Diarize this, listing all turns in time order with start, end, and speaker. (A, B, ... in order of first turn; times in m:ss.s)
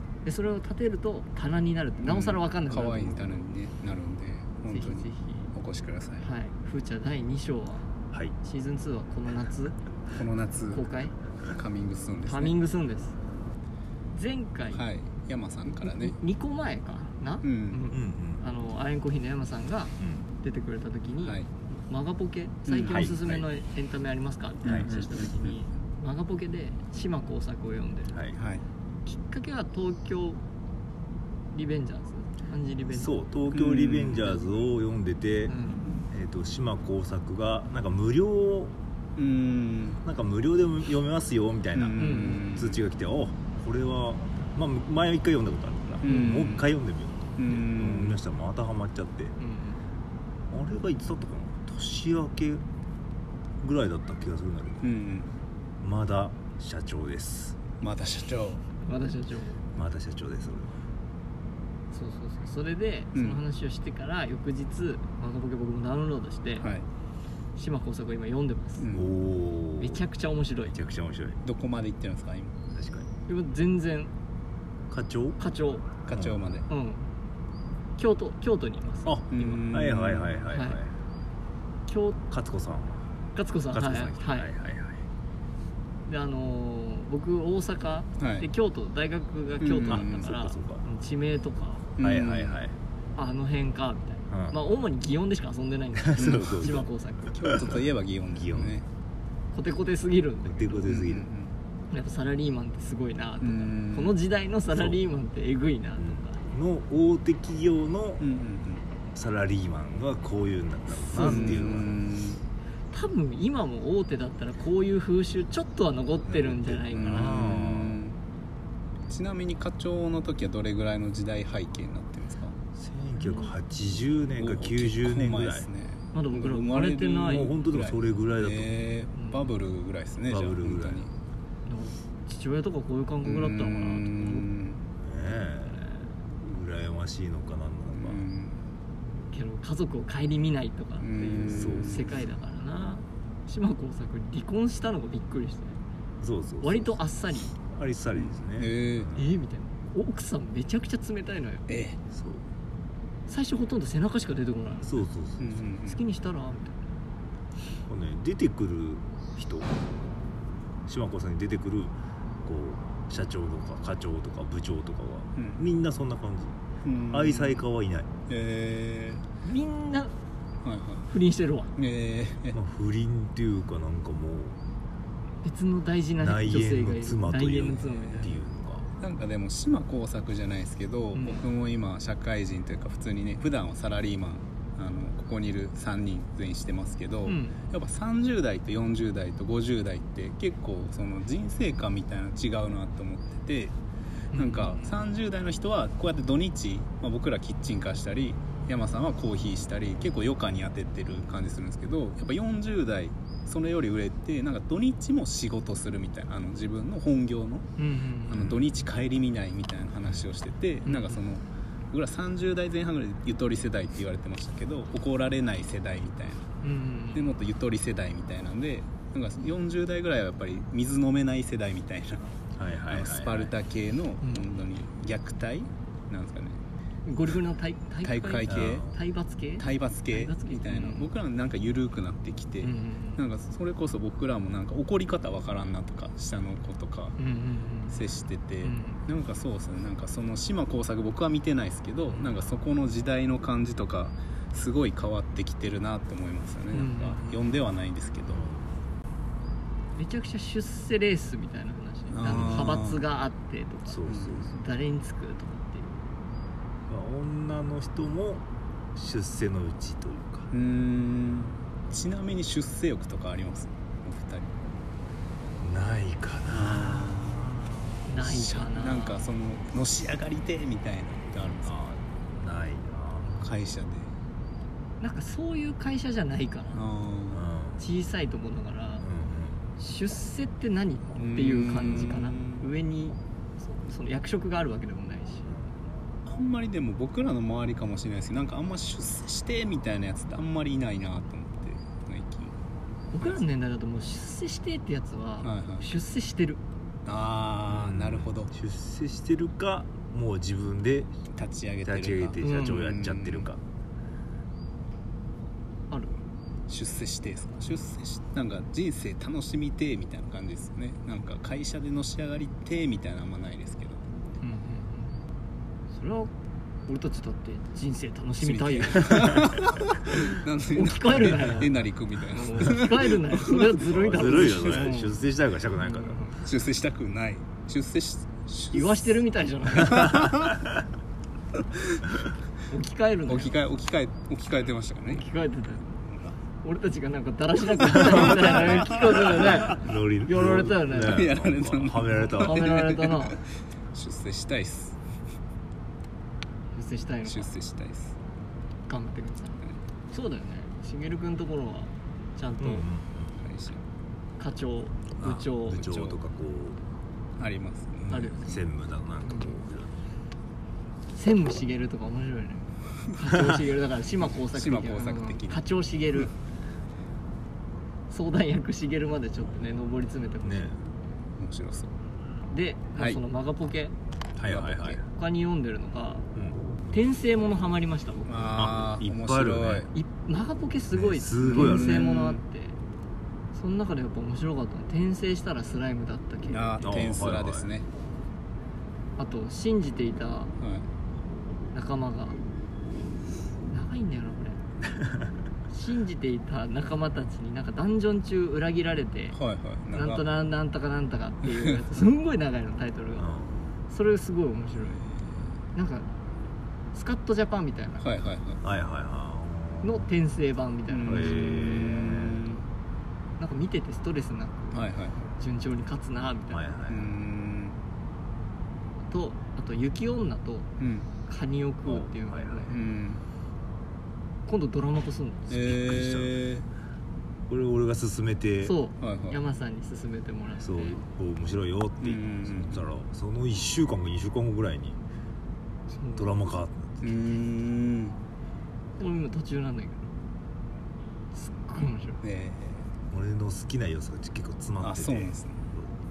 0:00.2-0:03.4 A
0:02.0-0:06.3 B
0:04.7-0:05.5 A
0:06.2-0:07.9 A
0:08.4-0:09.8 A
0:10.1-0:10.8 B
0:10.7-0:11.1 A
0:11.5-0:12.6 B
0:12.3-0:13.2 A
0:14.1-0:14.8 A
0:14.7-0:16.2 B
0:15.7-0:28.2 A
0:17.4-0:17.8 B
0:17.9-0:18.4 C
0:20.0-0:20.2 C
0:22.7-0:23.1 B
0:22.9-0:23.4 C
0:24.6-0:24.9 C
0:24.6-0:25.5 B
0:28.1-0:28.4 C
0:28.4-0:28.6 B
0:29.0-0:30.4 A
0:31.5-0:33.2 A
0:32.9-0:35.6 C
0:33.5-0:34.3 B
0:35.5-0:35.9 A
0:36.1-0:38.8 C
0:39.2-0:40.0 B
0:40.0-0:49.4 C
0:41.8-0:42.8 B
0:42.0-0:42.4 A
0:46.0-0:46.7 B
0:47.4-0:48.2 B
0:49.4-0:49.8 A
0:50.5-0:52.6 C
0:53.6-0:54.9 C
0:54.8-0:55.3 B
0:55.8-0:57.6 C
0:57.8-0:58.6 B
0:58.8-0:59.6 A
0:59.8-1:00.9 C
1:01.9-1:06.7 A
1:03.2-1:03.4 B
1:06.6-1:06.8 B
1:07.6-1:08.9 A
1:08.8-1:09.2 B
1:08.9-1:10.0 C
1:09.8-1:10.8 A
1:10.7-1:11.4 C
1:11.4-1:12.5 B
1:12.7-1:13.1 C
1:13.3-1:14.1 A
1:14.9-1:15.4 C
1:15.4-1:15.9 A
1:16.1-1:16.7 B
1:16.1-1:16.4 C
1:16.7-1:17.1 A
1:18.0-1:19.6 A
1:19.0-1:20.9 C
1:19.3-1:20.4 B
1:20.5-1:20.8 A
1:21.9-1:22.2 A
1:22.3-1:23.0 C
1:23.4-1:24.5 A
1:23.7-1:25.0 C
1:26.1-1:31.9 A
1:28.2-1:28.5 B
1:29.6-1:30.3 B
1:30.0-1:30.8 C
1:32.0-1:32.6 B
1:32.0-1:32.8 C
1:33.2-1:37.4 A
1:34.3-1:34.6 C
1:36.0-1:38.8 C
1:36.2-1:36.5 B
1:37.4-1:38.8 B
1:39.5-1:40.9 A
1:40.4-1:41.3 C
1:40.8-1:41.5 B
1:41.9-1:46.4 A
1:43.4-1:44.2 B
1:44.7-1:45.0 C
1:46.0-1:48.3 C
1:48.2-1:48.8 B
1:49.2-1:51.9 C
1:51.1-1:51.8 A
1:51.2-1:52.4 B
1:52.9-1:57.6 A
1:56.3-1:58.0 C
1:56.9-1:58.2 B
1:59.1-2:02.6 B
2:02.8-2:05.7 C
2:03.2-2:03.5 A
2:04.4-2:11.1 B
2:06.1-2:07.5 A
2:07.2-2:08.7 C
2:09.2-2:09.5 A
2:10.3-2:11.1 C
2:11.7-2:14.5 A
2:13.2-2:14.8 B
2:15.0-2:15.8 C
2:15.7-2:16.1 A
2:16.4-2:18.3 C
2:17.9-2:18.6 B
2:19.3-2:25.8 A
2:21.0-2:22.2 B
2:21.5-2:22.1 C
2:26.2-2:27.0 C
2:26.6-2:27.6 A
2:27.6-2:29.4 C
2:28.2-2:29.1 B
2:29.2-2:31.6 A
2:31.7-2:32.0 B
2:32.1-2:32.4 C
2:33.3-2:35.0 A
2:34.8-2:35.7 C
2:35.4-2:36.0 B
2:35.9-2:36.9 A
2:37.9-2:39.8 C
2:40.9-2:46.6 C
2:45.4-2:45.6 B
2:46.8-2:47.6 B
2:47.1-2:48.1 C
2:48.3-2:49.3 B
2:49.4-2:50.2 A
2:50.6-2:51.1 B
2:51.1-2:51.7 A
2:51.8-2:52.6 B
2:52.5-2:54.6 C
2:55.4-2:58.4 A
2:56.2-2:58.9 C
2:59.0-3:13.8 B
3:01.1-3:01.4 A
3:07.3-3:07.6 A
3:14.3-3:14.9 A
3:14.3-3:27.7 B
3:27.8-3:28.5 A
3:28.3-3:36.5 B
3:30.8-3:31.2 A
3:36.6-3:37.2 A
3:37.1-3:42.3 B
3:42.6-3:43.5 C
3:42.9-3:46.6 B
3:47.1-3:51.1 A
3:48.0-3:48.9 B
3:48.5-3:48.9 C
3:49.6-3:57.2 B
3:52.6-3:53.2 A
3:57.2-3:58.0 A
3:57.9-4:08.5 B
3:58.6-3:59.0 A
4:06.7-4:07.5 A
4:08.3-4:08.7 C
4:10.0-4:16.1 A
4:12.1-4:13.0 B
4:12.2-4:12.8 C
4:13.9-4:14.5 C
4:14.1-4:14.4 B
4:16.9-4:20.5 C
4:20.5-4:24.5 B
4:25.6-4:27.7 C
4:26.5-4:27.6 B
4:28.0-4:29.3 A
4:28.2-4:31.8 B
4:31.6-4:33.4 C
4:33.4-4:34.2 B
4:35.0-4:36.8 A
4:36.7-4:37.5 B
4:37.3-4:37.8 C
4:37.8-4:39.1 A
4:39.0-4:39.6 C
4:39.8-4:45.6 A
4:41.2-4:42.7 B
4:46.3-4:52.6 B
4:53.1-4:56.6 A
4:55.4-4:55.9 B
4:57.1-4:58.5 B
4:57.7-5:01.1 C
5:01.3-5:03.5 B
5:01.8-5:03.6 C
5:02.4-5:02.8 A
5:06.7-5:14.0 B
5:14.4-5:15.2 A
5:15.9-5:16.3 A
5:16.9-5:19.5 A
5:18.4-5:24.9 B
5:20.1-5:21.7 A
5:22.3-5:25.2 A
5:23.9-5:26.2 C
5:25.8-5:26.4 A
5:26.4-5:29.2 B
5:28.7-5:30.4 A
5:29.8-5:30.6 B
5:31.8-5:32.1 B
5:32.7-5:33.6 A
5:33.3-5:35.3 B
5:35.1-5:36.0 A
5:36.1-5:36.4 B
5:36.6-5:41.3 A
5:37.8-5:39.8 B
5:39.6-5:42.8 C
5:40.9-5:45.0 B
5:42.1-5:43.4 A
5:46.7-5:47.5 A
5:47.3-5:48.2 B
5:48.9-5:52.9 A
5:52.6-5:53.3 C
5:53.4-5:53.8 B
5:54.4-5:55.9 A
5:55.2-5:56.8 C
5:55.8-5:56.2 B
5:57.4-5:58.4 B
5:58.1-6:00.0 C
5:58.1-5:58.6 A
5:59.2-5:59.6 A
6:01.1-6:06.3 A
6:04.3-6:05.6 B
6:08.1-6:10.8 A
6:10.4-6:10.8 C
6:11.4-6:11.9 B
6:12.5-6:13.9 A
6:14.4-6:15.0 C
6:14.4-6:15.0 B
6:15.0-6:16.3 A
6:16.4-6:17.0 C
6:16.9-6:18.7 A
6:18.3-6:19.9 B
6:18.6-6:19.9 C
6:19.9-6:22.8 A
6:20.9-6:22.1 C
6:21.4-6:22.4 B
6:23.5-6:27.0 A
6:26.5-6:27.9 B
6:26.8-6:27.7 C
6:29.2-6:30.5 A
6:30.6-6:30.9 B
6:31.7-6:32.4 A
6:33.7-6:34.6 A
6:35.0-6:35.3 C
6:35.7-6:39.4 A
6:39.3-6:40.3 B
6:39.9-6:43.3 A
6:41.5-6:41.8 B
6:43.2-6:43.7 C
6:43.9-6:45.1 A
6:45.7-6:46.1 A
6:46.9-6:48.1 A
6:48.0-6:48.6 B
6:48.6-6:50.1 C
6:49.8-6:51.9 A
6:50.9-6:52.6 B
6:51.1-6:52.4 C
6:53.4-6:56.7 A
6:54.7-6:55.2 B
6:56.5-6:57.1 C
6:56.9-6:57.8 B
6:59.1-7:00.7 A
7:00.8-7:01.1 B
7:01.2-7:02.8 A
7:01.9-7:02.7 C
7:02.7-7:03.2 B
7:04.5-7:05.6 A
7:05.5-7:06.6 B
7:05.6-7:06.4 C
7:07.5-7:08.8 C
7:08.6-7:11.0 A
7:09.0-7:09.4 B
7:10.6-7:15.0 C
7:12.0-7:12.8 B
7:15.9-7:16.3 A
7:16.2-7:17.1 C
7:17.0-7:18.2 B
7:19.0-7:20.1 A
7:21.3-7:22.2 A
7:22.2-7:22.9 B
7:23.1-7:25.9 C
7:24.8-7:25.6 B